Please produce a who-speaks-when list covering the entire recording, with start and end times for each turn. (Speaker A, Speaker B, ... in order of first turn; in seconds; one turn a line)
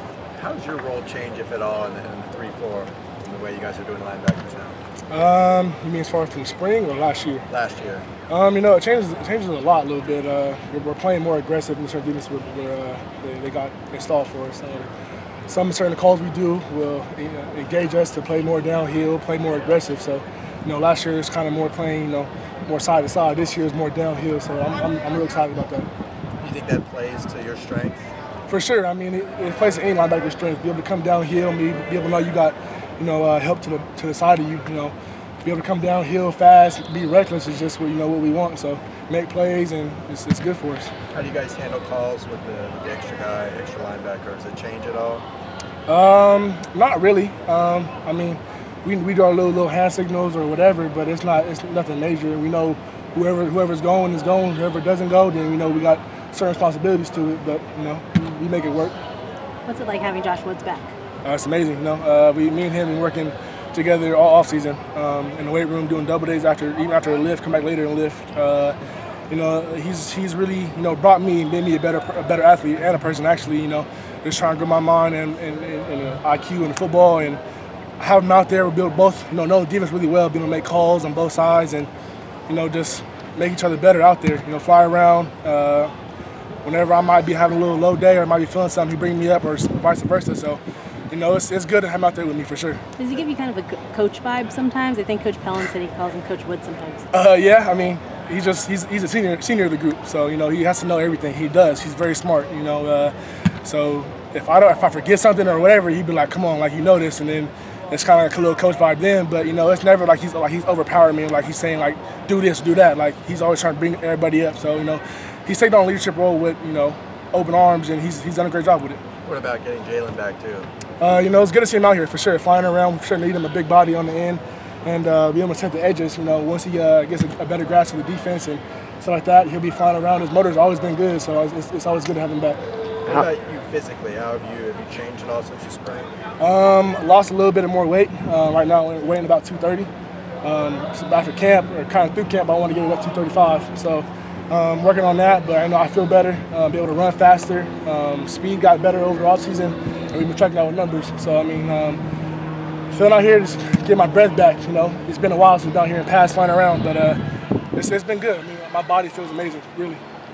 Speaker A: 0.4-4.8
Speaker B: 5.1-7.4
Speaker A: 7.5-8.1
Speaker B: 8.3-14.9
Speaker B: 15.5-25.9
Speaker A: 26.4-28.1
Speaker B: 28.5-40.9
Speaker A: 41.1-45.2
Speaker B: 45.9-59.0
Speaker C: 59.6-60.9
Speaker B: 61.2-68.8
Speaker B: 69.3-77.4
Speaker B: 78.0-81.9
Speaker B: 82.5-85.9
Speaker B: 86.6-90.6
Speaker B: 91.1-92.8
Speaker C: 93.0-97.0
Speaker B: 97.1-119.0
Speaker A: 119.2-120.7
Speaker B: 121.0-132.6
Speaker A: 133.1-136.1
Speaker B: 136.4-139.9
Speaker B: 140.4-152.0
Speaker B: 152.9-157.2
Speaker B: 157.8-160.0